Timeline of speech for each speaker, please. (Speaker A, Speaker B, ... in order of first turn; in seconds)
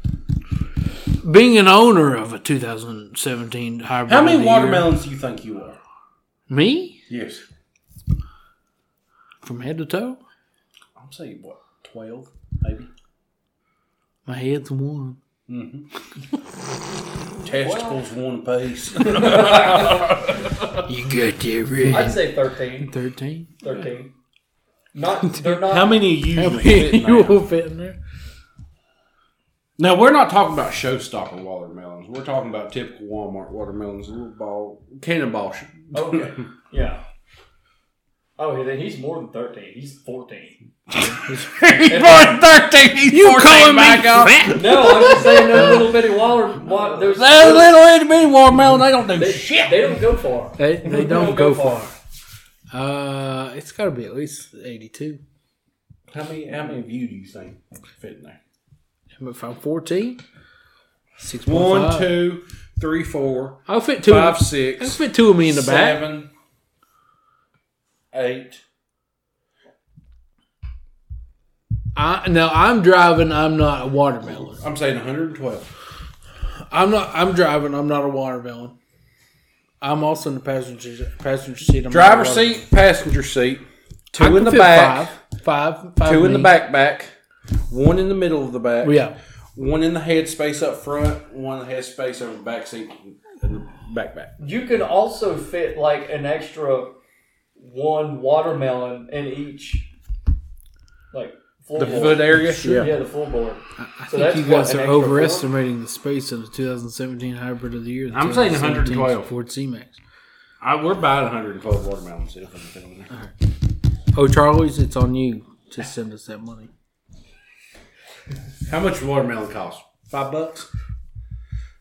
Speaker A: 1.2-4.9, 6.5-7.0, 9.4-10.2, 14.3-15.2, 20.9-23.5, 26.3-28.0, 41.0-41.4, 43.1-45.9, 50.6-51.9, 52.7-55.2, 59.2-60.2, 61.2-62.1, 63.7-66.0, 72.0-74.6, 76.7-78.7, 79.8-82.6, 84.1-86.5, 88.8-89.1, 102.1-102.9, 103.8-110.0, 114.1-116.7
Speaker B: 4.1-5.8, 7.1-7.4, 11.0-12.9, 15.5-15.9, 17.4-20.8, 25.5-27.4, 29.8-36.4, 40.9-46.0, 46.6-50.0, 56.1-58.4, 61.5-66.3, 68.1-68.6, 74.5-75.7, 81.9-85.2, 86.0-87.1, 87.7-89.0, 89.5-94.4, 101.8-102.9, 108.1-109.3, 110.6-113.1, 118.7-120.7
Speaker C: 17.6-18.0, 19.1-20.1, 21.9-22.9, 23.6-24.1, 24.9-26.0, 35.9-37.0, 38.4-40.6, 41.9-42.4, 44.5-47.8, 49.1-51.9, 94.4-96.9, 97.6-99.9, 101.1-105.5